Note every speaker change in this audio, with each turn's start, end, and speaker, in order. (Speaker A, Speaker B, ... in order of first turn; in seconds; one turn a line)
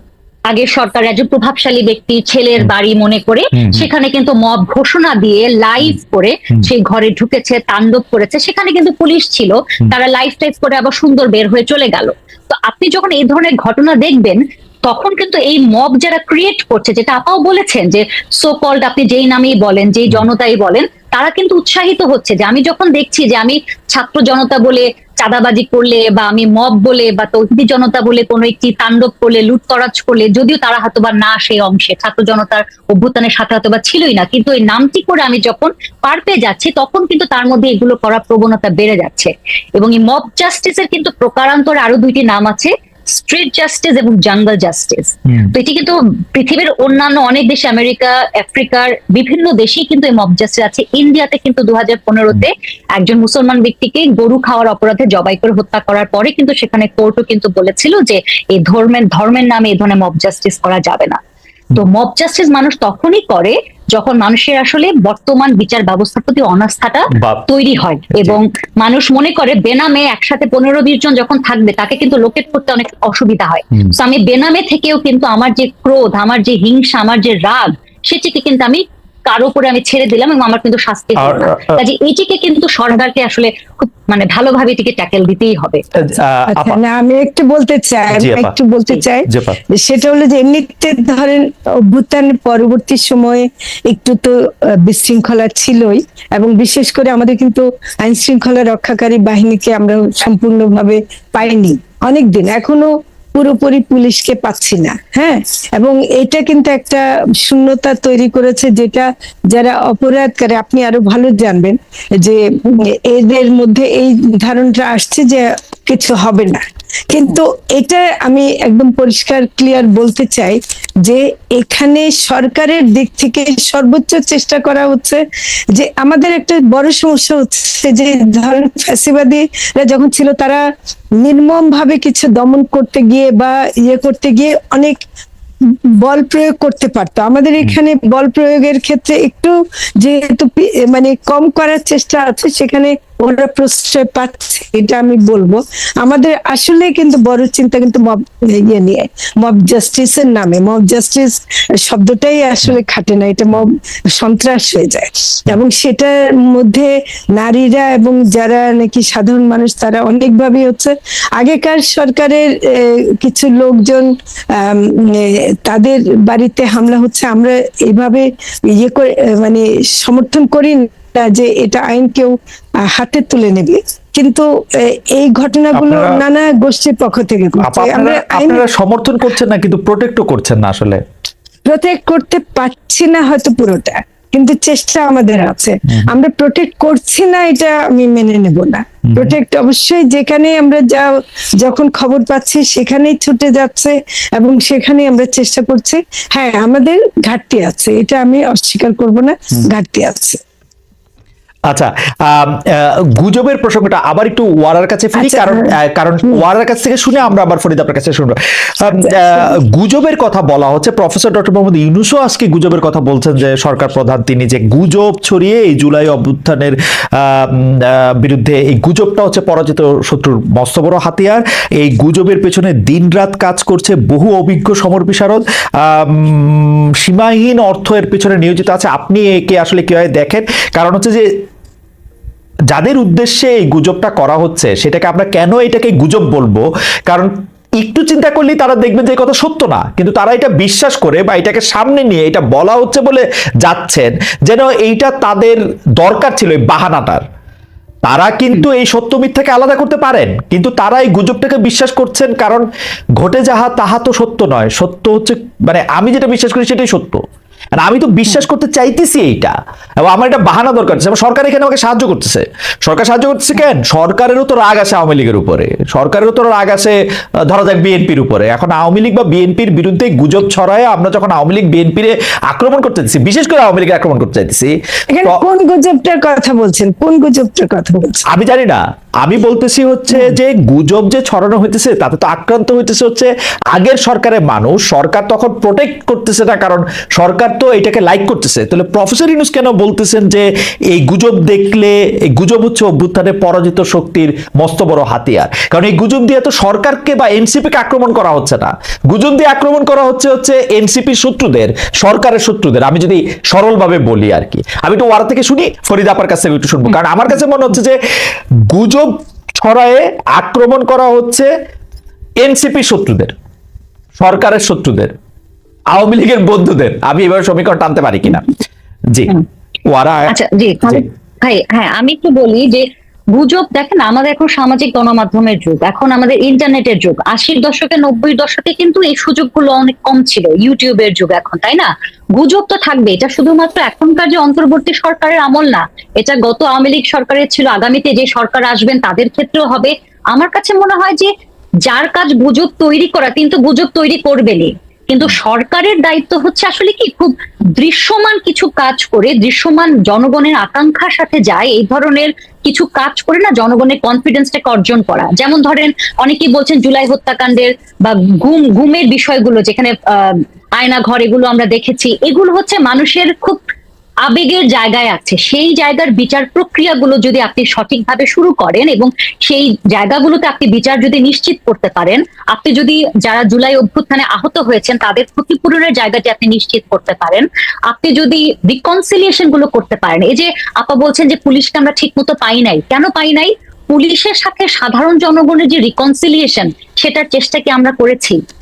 Speaker A: 0.5-61.2
Speaker B: 3.5-3.9
Speaker A: 61.7-85.8
Speaker B: 67.1-67.4
Speaker B: 68.1-68.4
Speaker B: 81.2-81.8
Speaker B: 86.0-86.8
Speaker C: 86.5-125.2
Speaker B: 88.1-88.5
Speaker B: 89.3-89.6
Speaker C: 125.7-130.6
Speaker C: 131.2-135.0
Speaker C: 135.7-172.3
Speaker C: 172.9-178.6
Speaker B: 175.7-176.2
Speaker B: 177.6-181.0
Speaker C: 181.7-200.4
Speaker B: 189.1-189.3
Speaker B: 201.7-231.2
Speaker C: 205.1-205.7
Speaker C: 209.0-209.5
Speaker B: 232.7-247.2
Speaker B: 248.0-252.6
Speaker B: 253.2-257.2
Speaker B: 257.8-266.9
Speaker B: 267.5-275.4
Speaker C: 275.1-278.2
Speaker B: 278.3-308.0
Speaker B: 308.7-311.5
Speaker B: 312.4-313.3
Speaker B: 314.2-315.1
Speaker B: 315.9-318.6
Speaker B: 319.1-321.0
Speaker A: 320.3-341.3
Speaker A: 341.8-363.6
Speaker A: 364.2-388.4